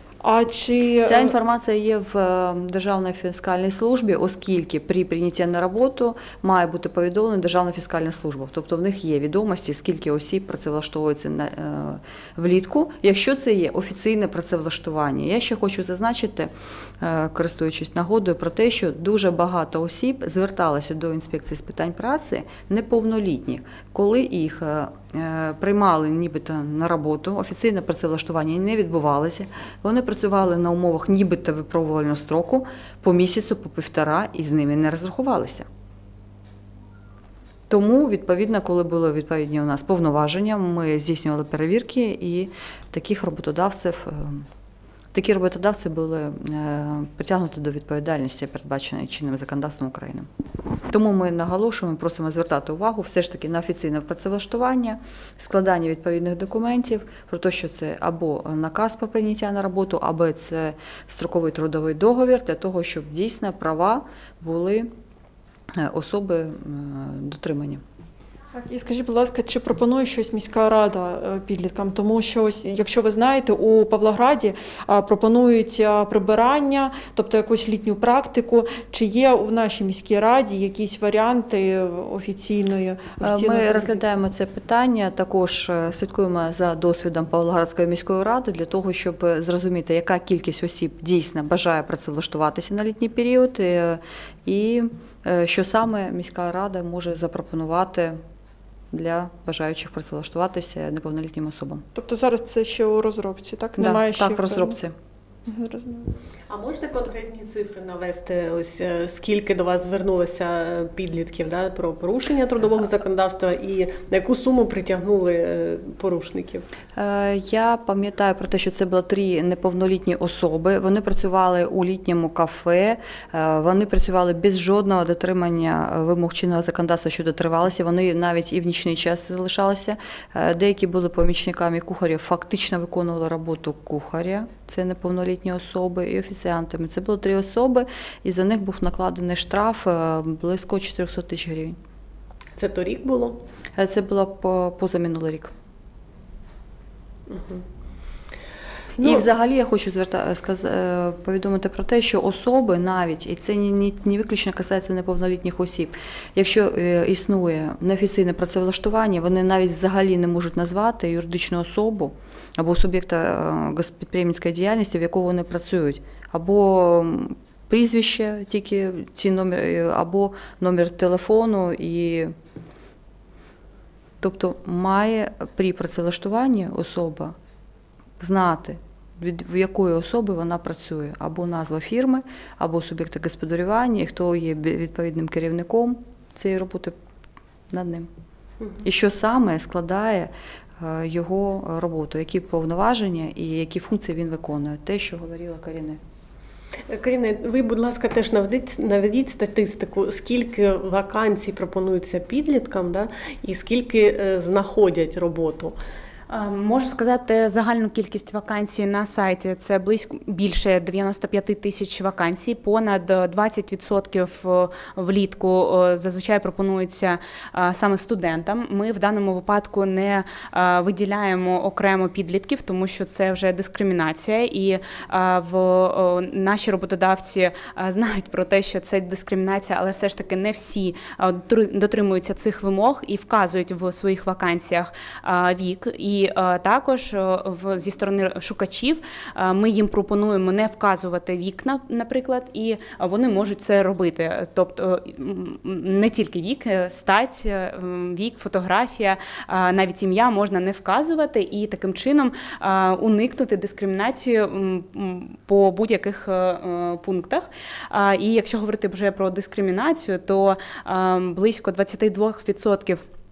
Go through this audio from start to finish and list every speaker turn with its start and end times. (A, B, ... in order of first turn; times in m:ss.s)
0:00.2-0:01.3 A
0:01.0-0:35.7 B
0:37.7-0:44.5 B
0:45.1-0:50.3 B
0:50.9-1:04.9 B
1:05.8-1:07.8 B
1:08.5-1:24.0 A
1:23.2-1:38.2 B
1:38.9-1:41.8 B
1:42.0-1:44.8 A
1:43.8-1:45.0 B
1:45.5-1:46.2 A
1:46.5-1:56.6 C
1:57.0-2:21.8 B
2:22.6-2:23.4 C
2:23.8-2:25.5 B
2:27.3-2:27.6 C
2:29.0-2:52.3 B
2:29.0-2:29.3 C
2:54.2-2:57.4 B
2:58.2-3:06.9 B
3:07.7-3:08.1 B
3:08.8-3:16.0 B
3:16.9-3:25.8 C
3:26.3-4:23.0 D